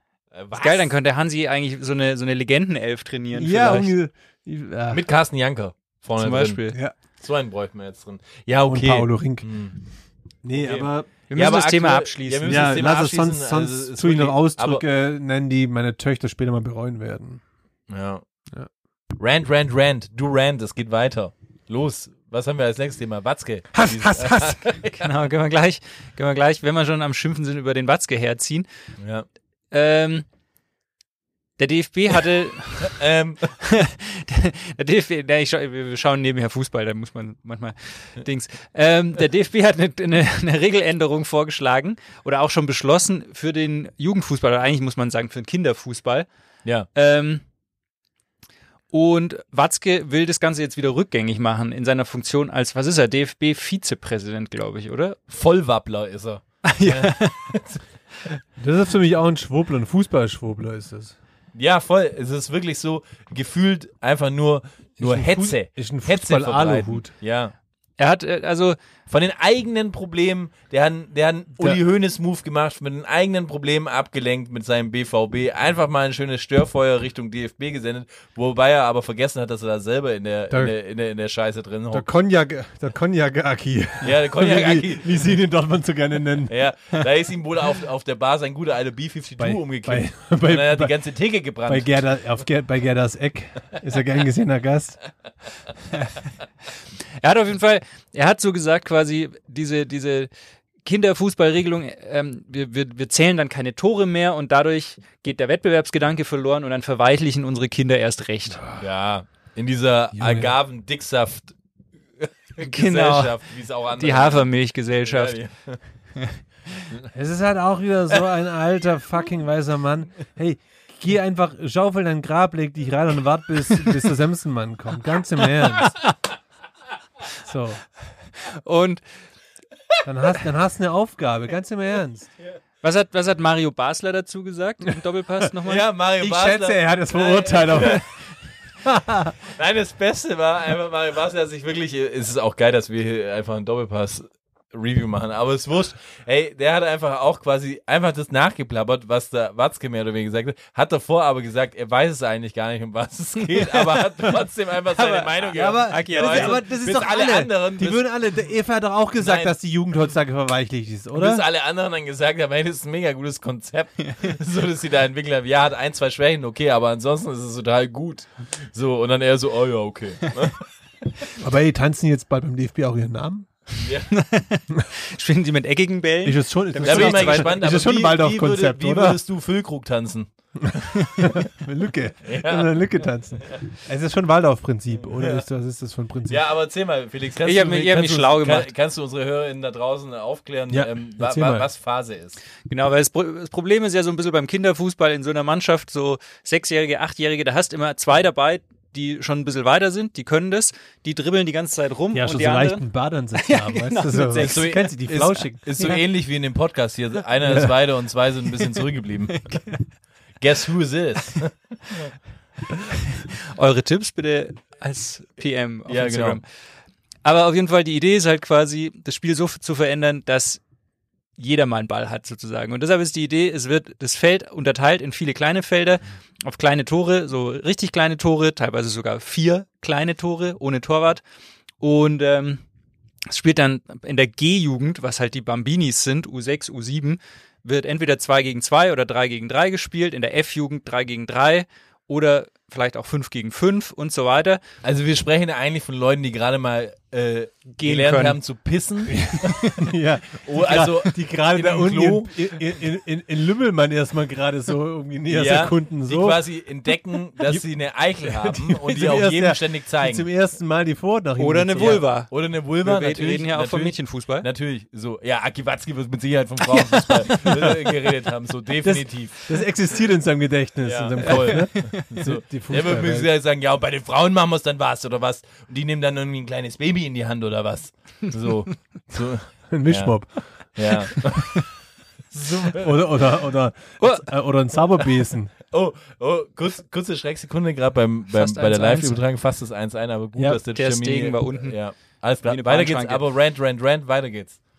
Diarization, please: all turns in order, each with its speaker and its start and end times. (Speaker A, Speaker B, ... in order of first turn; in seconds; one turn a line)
Speaker A: 0.3-0.9
Speaker B: 0.5-3.9
Speaker C: 3.3-5.0
Speaker A: 4.9-6.6
Speaker B: 6.2-6.8
Speaker A: 7.2-9.8
Speaker C: 8.7-9.5
Speaker C: 10.4-11.1
Speaker A: 10.6-14.8
Speaker B: 11.3-12.7
Speaker C: 12.4-17.4
Speaker A: 17.9-18.2
Speaker A: 19.2-25.1
Speaker C: 23.7-24.7
Speaker B: 25.0-28.7
Speaker A: 29.0-29.2
Speaker B: 29.7-30.2
Speaker B: 31.6-33.0
Speaker A: 32.8-33.4
Speaker B: 33.6-46.3
Speaker B: 46.9-47.4
Speaker B: 48.9-55.2
Speaker A: 55.3-57.8
Speaker B: 56.7-57.5
Speaker C: 58.6-61.1
Speaker A: 61.5-67.5
Speaker C: 65.0-67.1
Speaker B: 68.0-68.8
Speaker A: 69.1-82.1
Speaker C: 81.9-86.5
Speaker A: 84.0-85.2
Speaker A: 86.5-91.9
Speaker C: 89.4-91.0
Speaker C: 91.6-95.0
Speaker B: 97.2-100.3
Speaker B: 100.8-108.6
Speaker A: 108.8-111.5
Speaker C: 110.1-110.5
Speaker A: 112.2-114.5
Speaker B: 112.6-113.4
Speaker B: 114.0-115.4
Speaker A: 115.0-115.8
Speaker C: 117.1-126.0
Speaker C: 127.4-127.8
Speaker B: 128.5-129.0
Speaker C: 130.0-132.3
Speaker B: 132.8-135.9
Speaker A: 135.6-138.0
Speaker C: 136.2-138.0
Speaker C: 138.8-139.3
Speaker A: 139.5-158.1
Speaker B: 153.5-154.3
Speaker B: 154.9-156.6
Speaker C: 155.5-161.4
Speaker A: 159.2-159.5
Speaker A: 161.1-170.6
Speaker B: 164.0-164.3
Speaker C: 171.4-173.5
Speaker A: 173.8-174.1
Speaker B: 174.1-177.6
Speaker C: 176.2-179.2
Speaker A: 176.8-180.3
Speaker C: 180.6-186.4
Speaker A: 182.2-182.7
Speaker A: 186.3-192.4
Speaker B: 187.4-188.7
Speaker C: 190.7-191.7
Speaker B: 192.7-202.8
Speaker C: 202.1-206.0
Speaker B: 203.3-204.7
Speaker A: 204.4-209.4
Speaker C: 207.4-207.7
Speaker B: 209.3-209.8
Speaker A: 210.4-212.1
Speaker B: 213.1-216.4
Speaker A: 215.9-216.4
Speaker B: 217.2-220.6
Speaker B: 221.4-231.2
Speaker B: 231.8-232.6
Speaker B: 233.3-244.6
Speaker A: 244.8-249.2
Speaker B: 247.8-248.4
Speaker C: 249.1-256.4
Speaker A: 250.4-252.3
Speaker A: 255.3-260.2
Speaker C: 258.2-262.1
Speaker B: 261.4-264.5
Speaker A: 262.3-269.5
Speaker B: 266.7-267.7
Speaker C: 268.8-273.3
Speaker A: 270.8-280.2
Speaker B: 271.4-272.0
Speaker C: 279.7-280.4
Speaker A: 280.7-281.6
Speaker C: 282.3-285.5
Speaker B: 284.0-284.3
Speaker A: 285.7-294.6
Speaker B: 288.3-289.2
Speaker B: 290.7-291.8
Speaker B: 292.4-293.2